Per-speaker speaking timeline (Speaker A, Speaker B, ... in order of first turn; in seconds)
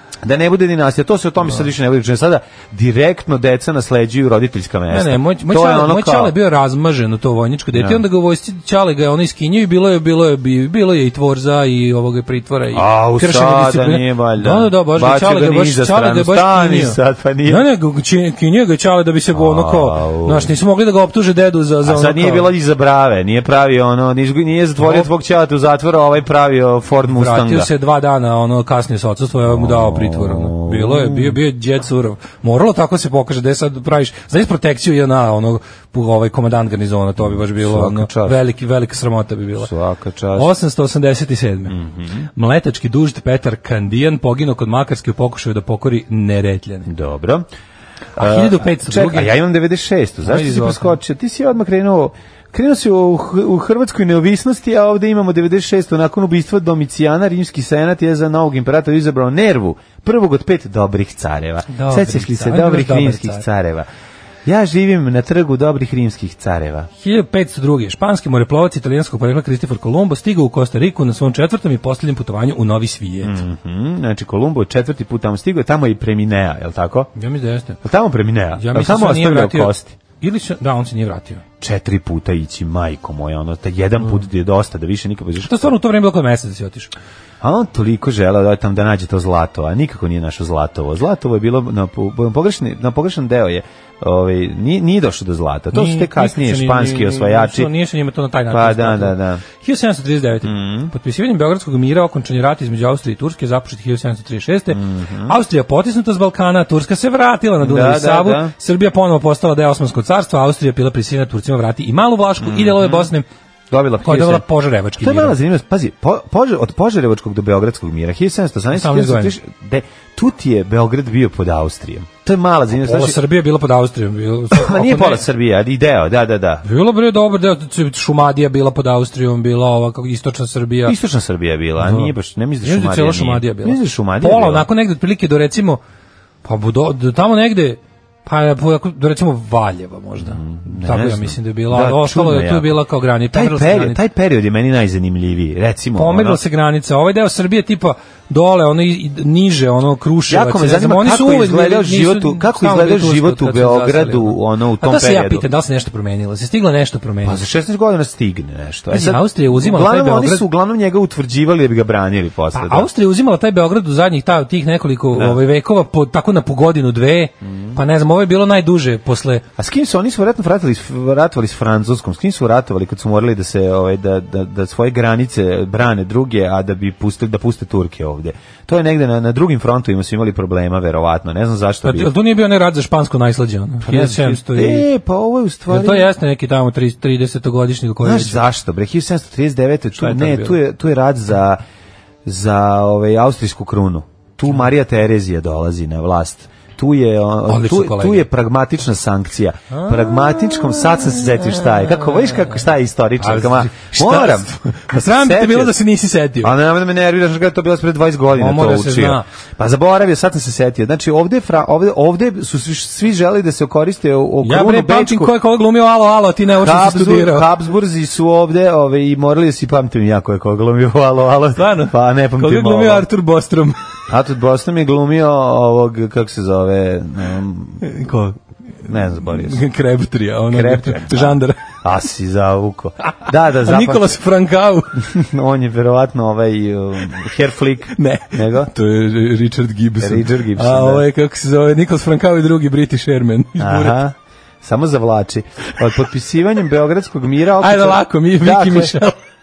Speaker A: 0.2-6.3, 7.7-8.0, 12.7-17.6, 19.3-20.5, 21.8-27.7, 29.4-31.4, 37.2-38.4, 39.6-40.5, 41.7-42.3, 46.9-47.5, 48.2-63.9, 64.5-66.9, 73.2-77.1, 77.8-80.0, 81.6-85.7, 87.4-97.7, 98.5-99.4, 100.4-100.9, 104.7-105.3, 107.6-108.5, 112.4-113.1, 113.7-114.5, 115.0-123.2, 124.5-126.6, 130.8-134.7, 140.2-142.8, 143.3-146.4, 150.3-155.4, 157.2-162.9, 165.1-165.4, 167.4-167.8, 169.6-182.1, 183.8-186.1, 188.0-191.6, 192.2-205.8, 206.4-215.3, 216.6-223.1, 224.1-227.9, 228.8-229.6, 230.5-234.2, 235.0-238.7, 240.0-241.1, 243.6-249.0
Speaker B: 4.9-22.5, 24.8-25.1, 27.1-39.7, 40.4-41.8, 42.4-46.9, 48.2-49.3, 50.2-51.0, 61.7-63.5, 67.0-73.3, 77.2-77.8, 78.6-81.4, 85.4-86.9, 95.7-113.3, 114.0-115.4, 118.7-119.3, 122.7-125.2, 126.6-131.0, 131.8-135.8, 136.4-144.0, 146.0-157.4, 158.9-160.5, 162.5-169.4, 181.8-184.9, 185.7-188.4, 190.0-190.6, 197.5-198.3, 199.7-202.6, 203.2-206.5, 208.3-209.2, 214.4-217.5, 221.6-223.8, 227.8-228.4, 229.3-231.6, 233.1-234.9, 237.9-244.0, 247.6-249.2